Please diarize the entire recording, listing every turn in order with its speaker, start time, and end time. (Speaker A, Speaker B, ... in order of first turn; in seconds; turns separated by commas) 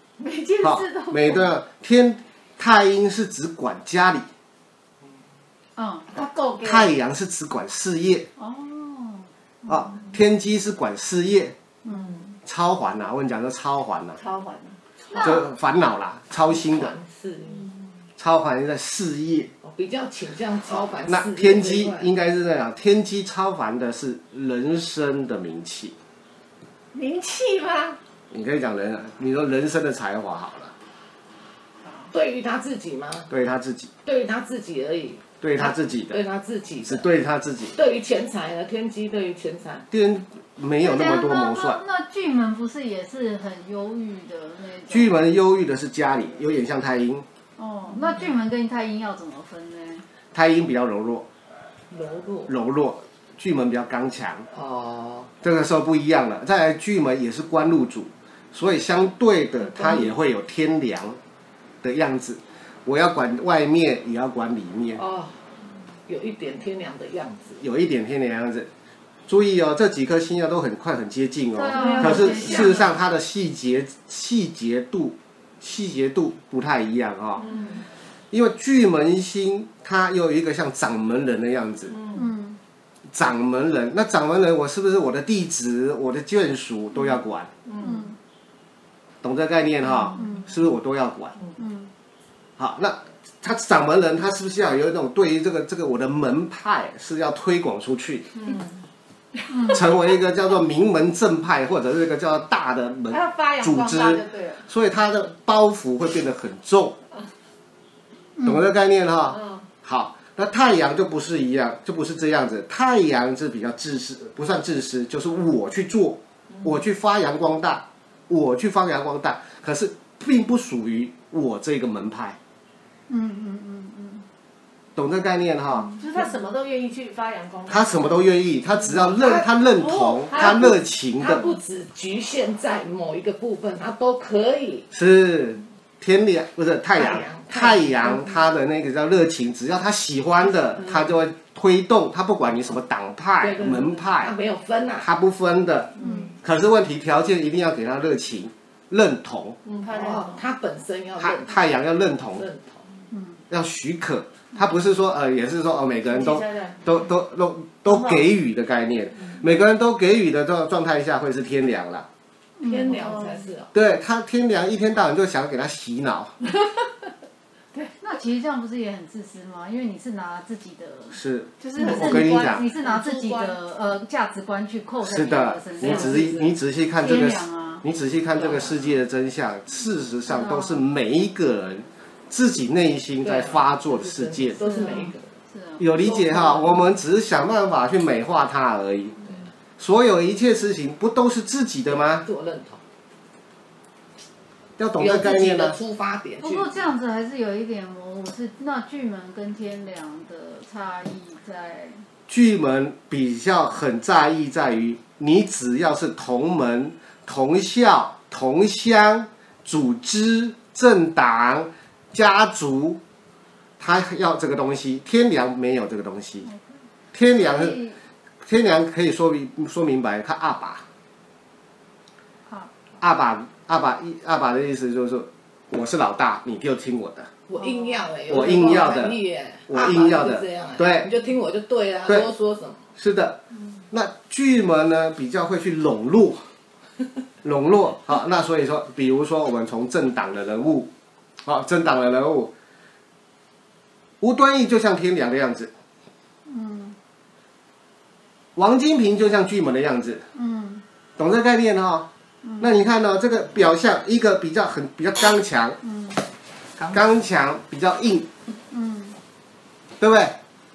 Speaker A: 0.2-1.5, Speaker B: 0.6-4.3, Speaker C: 5.8-6.1, Speaker A: 6.1-6.9, Speaker B: 6.6-8.3, Speaker C: 8.4-9.9, Speaker B: 9.7-11.6, Speaker A: 11.8-12.4, Speaker B: 12.4-14.2, Speaker A: 14.2-14.8, Speaker C: 15.1-15.4, Speaker B: 15.1-16.9, Speaker D: 16.5-17.7, Speaker B: 18.2-19.5, Speaker D: 19.6-22.1, Speaker B: 21.1-25.9, Speaker A: 26.9-28.0, Speaker B: 28.3-30.7, Speaker D: 32.1-33.3, Speaker B: 33.3-33.9, Speaker D: 34.0-37.1, Speaker B: 35.4-36.2, Speaker B: 36.8-37.8, Speaker D: 37.7-39.9, Speaker B: 39.9-41.8, Speaker C: 40.8-45.1, Speaker B: 44.9-47.2, Speaker C: 47.6-50.0, Speaker B: 50.3-51.3, Speaker D: 51.9-52.5, Speaker B: 52.5-54.5, Speaker D: 54.5-55.3, Speaker B: 55.4-61.2, Speaker D: 59.7-60.1, Speaker B: 61.8-65.0, Speaker D: 64.9-65.4, Speaker D: 66.0-67.6, Speaker B: 67.6-68.7, Speaker B: 69.3-77.5, Speaker C: 71.5-72.9, Speaker A: 71.8-72.7, Speaker D: 71.8-72.8, Speaker A: 77.4-77.8, Speaker B: 78.3-82.0, Speaker A: 81.9-82.3, Speaker C: 82.1-82.6, Speaker B: 83.1-87.5, Speaker A: 87.6-88.1, Speaker C: 87.8-88.2, Speaker B: 89.2-91.3, Speaker C: 90.2-90.5, Speaker C: 91.6-91.9, Speaker B: 92.6-98.3, Speaker A: 98.3-98.8, Speaker A: 99.4-99.8, Speaker C: 99.5-99.8, Speaker B: 99.7-107.0, Speaker A: 103.1-104.7, Speaker C: 108.4-108.7, Speaker B: 108.4-122.4, Speaker A: 109.3-109.6, Speaker C: 123.1-124.2, Speaker B: 125.0-125.9, Speaker C: 125.7-126.0, Speaker A: 126.0-128.2, Speaker B: 127.7-131.4, Speaker A: 128.8-130.8, Speaker D: 130.3-134.9, Speaker B: 134.9-144.3, Speaker D: 136.9-138.5, Speaker D: 140.8-141.1, Speaker D: 143.4-145.1, Speaker B: 145.0-149.6, Speaker C: 146.0-146.2, Speaker A: 146.0-146.3, Speaker A: 149.6-150.4, Speaker D: 149.9-151.8, Speaker B: 151.2-152.4, Speaker D: 152.3-152.8, Speaker C: 153.1-153.4, Speaker B: 153.5-162.1, Speaker A: 156.1-156.9, Speaker A: 157.9-158.2, Speaker C: 162.6-163.2, Speaker D: 162.6-163.7, Speaker A: 162.8-163.4, Speaker B: 163.7-166.3, Speaker C: 168.0-171.2, Speaker B: 171.1-172.6, Speaker A: 171.6-173.6, Speaker C: 171.7-176.4, Speaker B: 175.0-184.6, Speaker D: 175.8-176.5, Speaker C: 177.0-177.8, Speaker D: 178.3-178.9, Speaker C: 180.3-180.8, Speaker D: 183.2-185.3, Speaker C: 184.6-185.8, Speaker B: 185.8-189.2, Speaker D: 185.9-186.8, Speaker D: 189.2-189.5, Speaker B: 189.8-192.2, Speaker D: 191.9-192.8, Speaker B: 194.8-195.8, Speaker D: 195.0-196.7, Speaker C: 196.4-202.0, Speaker B: 202.3-213.0, Speaker B: 213.8-216.5, Speaker B: 217.1-217.8, Speaker C: 217.3-218.0, Speaker B: 218.4-220.8, Speaker B: 223.0-227.3, Speaker D: 227.5-232.8, Speaker C: 227.6-228.0, Speaker B: 228.3-231.1, Speaker B: 233.0-233.4, Speaker B: 233.9-236.4, Speaker B: 237.4-240.9, Speaker B: 241.4-242.5, Speaker B: 244.2-245.7, Speaker C: 246.4-247.0, Speaker B: 248.6-250.2, Speaker C: 250.3-250.8, Speaker B: 251.2-252.1, Speaker C: 252.4-252.7, Speaker B: 252.6-255.8, Speaker C: 255.8-256.2, Speaker B: 256.8-258.3, Speaker C: 258.7-259.2, Speaker B: 260.0-260.4